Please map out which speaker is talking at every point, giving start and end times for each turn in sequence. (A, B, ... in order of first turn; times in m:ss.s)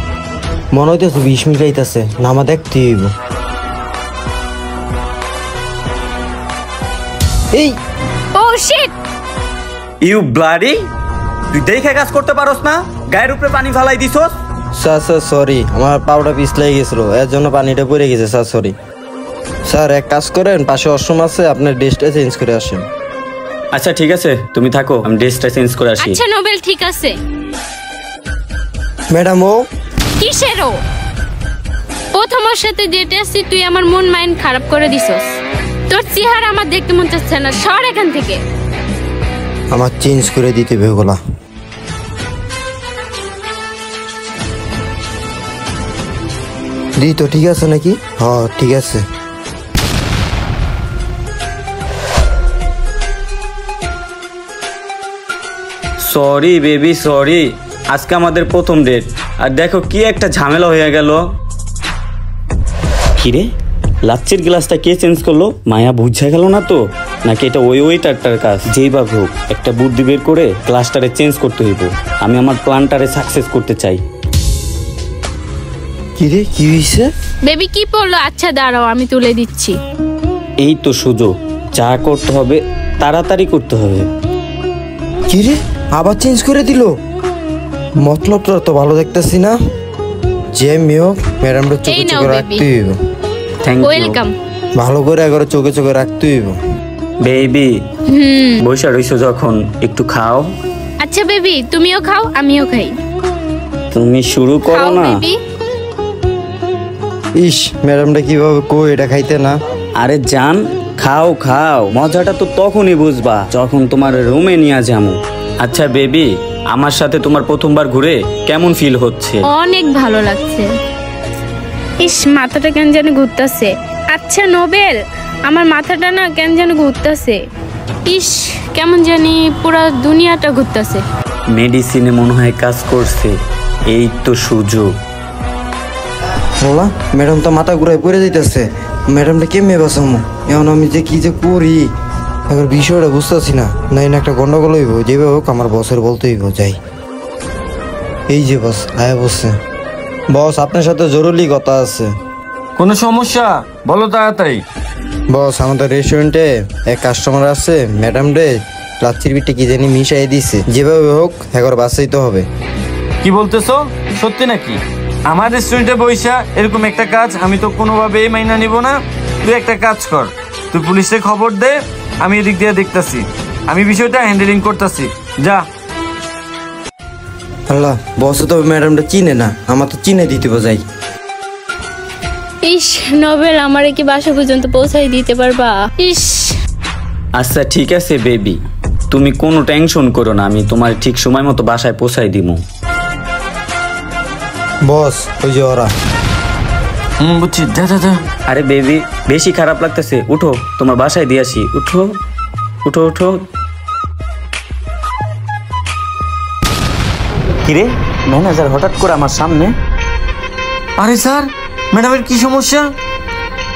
0:00.7-0:03.1 A
0:08.3-0:08.9 B
0:10.0-0:10.8 C
0:11.5-0:14.3 C
0:14.7-0:18.7 A
0:19.6-0:22.8 A
0:23.7-0:26.2 C
0:26.0-0:27.1 B
0:29.1-0:29.6 A
0:30.2-0:30.8 B
0:32.1-0:35.4 B
0:35.9-0:38.4 B
0:39.7-0:41.2 A
0:47.0-0:49.0 A
0:56.0-1:01.2 C
1:03.2-1:03.5 C
1:04.0-1:14.0 C
1:16.2-1:17.1 A
1:17.4-1:19.8 B
1:20.6-1:24.1 C
1:25.3-1:26.9 A
1:28.0-1:29.6 A
1:30.5-1:33.0 A
1:31.8-1:32.6 B
1:33.6-1:34.2 C
1:33.8-1:34.3 B
1:34.8-1:36.6 A
1:37.2-1:37.8 C
1:38.1-1:38.6 B
1:38.6-1:40.5 C
1:41.0-1:42.9 B
1:43.9-1:45.2 C
1:44.7-1:45.4 B
1:47.4-1:49.6 A
1:50.0-1:59.4 C
1:59.5-2:00.7 B
2:02.0-2:07.4 B
2:08.0-2:11.0 B
2:11.5-2:13.4 C
2:13.9-2:14.9 C
2:16.6-2:21.8 A
2:22.5-2:26.8 A
2:28.3-2:29.5 A
2:30.3-2:32.1 A
2:32.8-2:34.6 D
2:35.3-2:42.5 A
2:43.2-2:55.6 D
2:57.7-3:00.8 A
3:02.6-3:06.6 B
3:07.4-3:12.6 C
3:14.8-3:15.9 A
3:17.2-3:18.2 D
3:18.5-3:22.1 C
3:22.8-3:23.4 C
3:27.6-3:29.7 C
3:31.0-3:32.9 D